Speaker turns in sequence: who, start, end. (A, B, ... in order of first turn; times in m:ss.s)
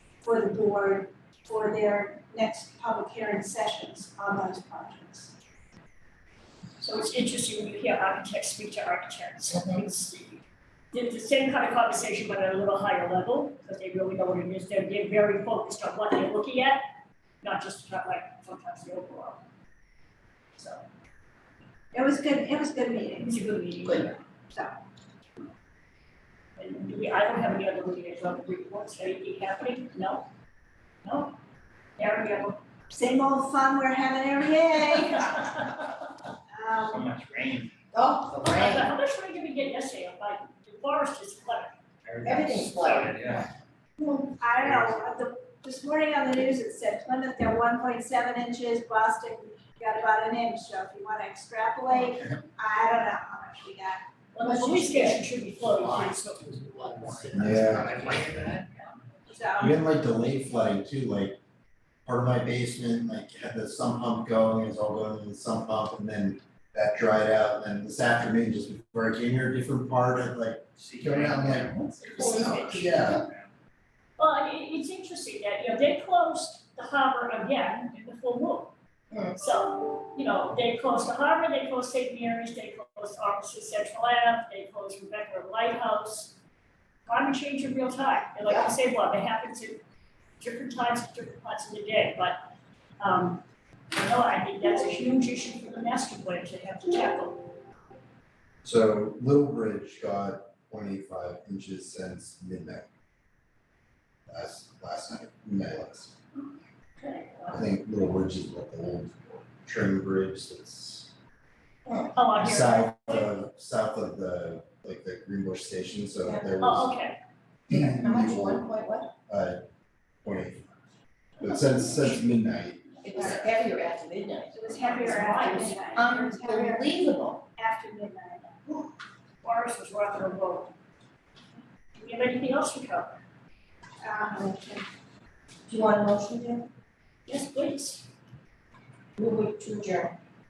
0:00.2-0:05.3 A
0:06.8-0:10.4 B
0:10.9-0:16.8 B
0:17.4-0:19.4 B
0:20.6-0:20.8 B
0:21.9-0:23.4 A
0:23.2-0:24.2 B
0:26.6-0:30.3 B
0:31.0-0:31.3 B
0:32.0-0:32.6 B
0:32.9-0:35.5 A
0:36.5-0:37.1 A
0:36.8-0:37.7 C
0:37.9-0:38.9 D
0:38.4-0:41.7 B
0:42.0-0:43.4 C
0:42.2-0:43.4 D
0:44.0-0:44.3 D
0:44.4-0:54.0 A
0:44.6-0:44.9 C
0:54.3-0:58.1 B
0:54.4-0:55.2 D
0:57.3-0:58.0 E
0:57.9-0:58.3 C
0:59.3-0:59.8 A
0:59.6-1:01.4 E
1:02.0-1:13.2 E
1:10.8-1:13.5 C
1:12.2-1:13.1 D
1:14.2-1:18.7 B
1:19.1-1:19.4 D
1:19.4-1:26.4 B
1:27.0-1:29.8 B
1:28.4-1:28.7 D
1:30.4-1:32.4 B
1:33.0-1:37.6 B
1:38.6-1:42.8 E
1:44.3-1:46.1 E
1:47.0-1:47.7 B
1:47.5-1:51.1 E
1:51.8-1:52.1 D
1:52.1-1:53.3 B
1:52.4-1:56.9 E
1:56.2-1:56.5 D
1:56.6-1:57.2 B
1:57.7-1:58.7 E
1:57.7-1:59.1 D
1:59.3-1:59.6 E
2:00.2-2:00.6 E
2:01.4-2:03.5 E
2:03.0-2:07.4 D
2:04.5-2:06.9 A
2:04.8-2:05.8 B
2:07.6-2:08.6 A
2:09.4-2:10.7 B
2:12.0-2:13.2 B
2:14.0-2:14.9 A
2:15.7-2:16.7 D
2:17.3-2:18.0 B
2:19.2-2:20.2 D